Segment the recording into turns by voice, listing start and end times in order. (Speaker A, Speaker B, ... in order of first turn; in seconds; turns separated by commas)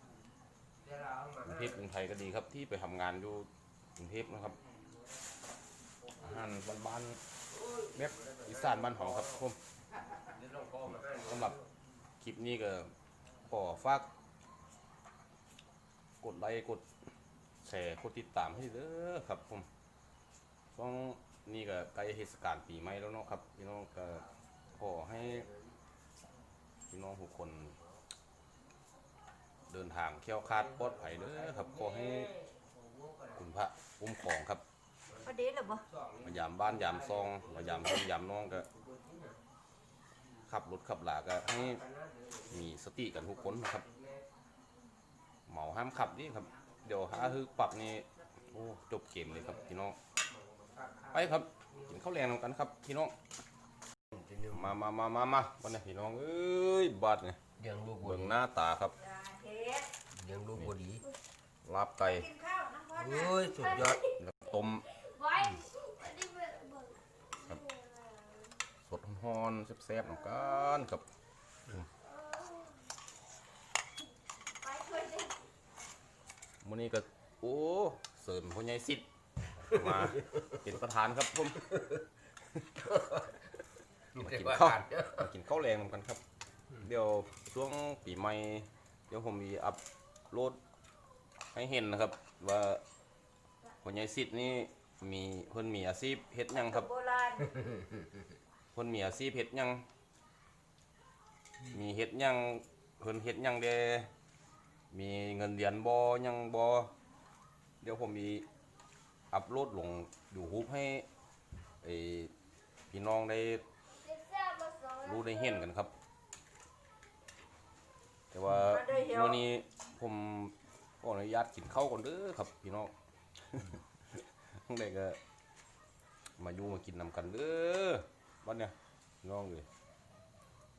Speaker A: 0.9-1.4, Speaker B: 1.4-4.6, Speaker B: 6.2-7.2, Speaker A: 7.6-7.9, Speaker B: 8.0-9.6, Speaker A: 10.3-11.6, Speaker B: 10.9-11.6, Speaker B: 12.2-12.9, Speaker B: 13.4-14.1, Speaker B: 16.2-16.8, Speaker B: 17.6-19.7, Speaker B: 20.7-24.3, Speaker B: 24.8-25.5, Speaker B: 26.9-27.8, Speaker B: 29.7-32.3, Speaker A: 31.5-33.1, Speaker B: 33.4-34.6, Speaker C: 35.2-35.9, Speaker A: 35.9-36.2, Speaker B: 36.2-38.7, Speaker A: 38.7-39.4, Speaker B: 40.5-41.8, Speaker A: 41.8-42.5, Speaker B: 42.5-43.9, Speaker A: 43.9-44.2, Speaker B: 45.5-50.0, Speaker A: 50.4-51.1, Speaker B: 51.1-53.2, Speaker B: 54.4-57.4, Speaker A: 57.6-58.0, Speaker B: 58.0-59.0, Speaker C: 59.0-59.9, Speaker A: 60.1-61.0, Speaker B: 61.6-62.3, Speaker C: 62.1-64.1, Speaker A: 63.1-64.0, Speaker B: 63.7-64.9, Speaker D: 65.0-67.0, Speaker D: 67.6-68.5, Speaker B: 68.8-71.0, Speaker D: 72.0-72.7, Speaker D: 74.6-75.4, Speaker B: 76.6-79.1, Speaker B: 79.6-81.7, Speaker A: 82.8-83.2, Speaker B: 84.2-86.2, Speaker A: 84.3-84.9, Speaker B: 86.8-89.8, Speaker B: 90.3-90.6, Speaker B: 91.5-92.8, Speaker B: 93.8-96.9, Speaker C: 96.6-97.6, Speaker B: 98.7-99.9, Speaker B: 101.7-104.1, Speaker B: 104.9-106.9, Speaker B: 107.8-108.5, Speaker B: 109.3-111.1, Speaker B: 111.8-112.3, Speaker B: 112.9-113.7, Speaker D: 114.0-115.1, Speaker B: 115.0-115.9, Speaker B: 118.3-125.2, Speaker C: 118.6-119.4, Speaker B: 126.4-129.7